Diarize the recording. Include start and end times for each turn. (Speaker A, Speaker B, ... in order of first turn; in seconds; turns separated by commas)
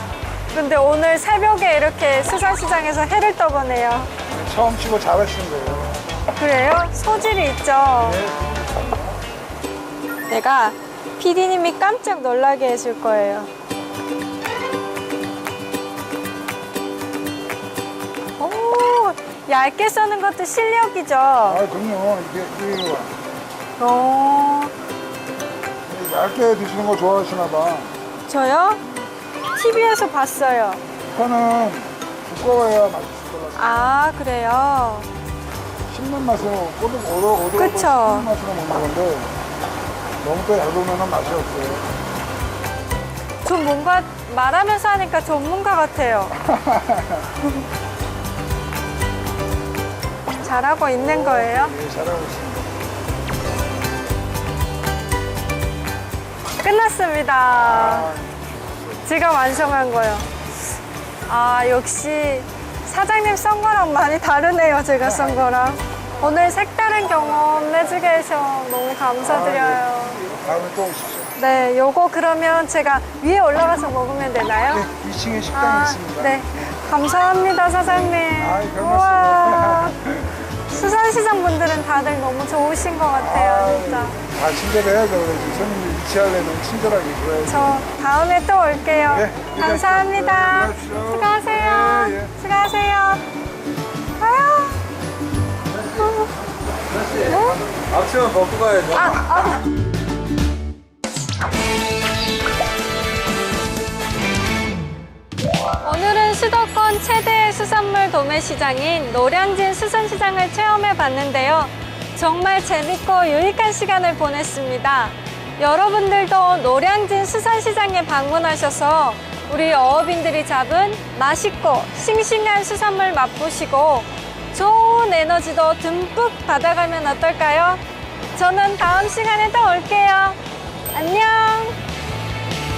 Speaker A: 0.5-4.1, Speaker B: 4.3-6.0, Speaker A: 6.3-8.2, Speaker B: 8.0-9.0, Speaker A: 10.3-13.5, Speaker A: 18.4-21.6, Speaker B: 21.4-23.1, Speaker A: 23.8-24.7, Speaker B: 25.9-27.9, Speaker A: 28.2-28.8, Speaker A: 29.5-30.8, Speaker B: 31.1-33.9, Speaker A: 33.5-35.1, Speaker B: 35.9-39.4, Speaker A: 37.5-38.3, Speaker B: 40.2-41.9, Speaker A: 43.4-46.3, Speaker B: 46.4-47.3, Speaker A: 50.4-51.8, Speaker B: 50.9-52.8, Speaker A: 56.6-58.1, Speaker B: 57.5-59.0, Speaker A: 59.0-60.3, Speaker A: 61.3-70.2, Speaker B: 65.0-65.4, Speaker B: 69.2-71.3, Speaker A: 71.3-74.9, Speaker B: 74.7-76.7, Speaker A: 75.5-80.0, Speaker B: 78.2-80.5, Speaker A: 80.7-84.2, Speaker B: 83.1-87.8, Speaker A: 87.5-93.2, Speaker B: 89.1-92.3, Speaker A: 94.2-94.8, Speaker A: 95.9-96.3, Speaker C: 96.9-99.2, Speaker A: 97.2-97.6, Speaker A: 98.9-99.7, Speaker A: 105.8-127.8, Speaker A: 128.3-130.4, Speaker A: 130.9-131.8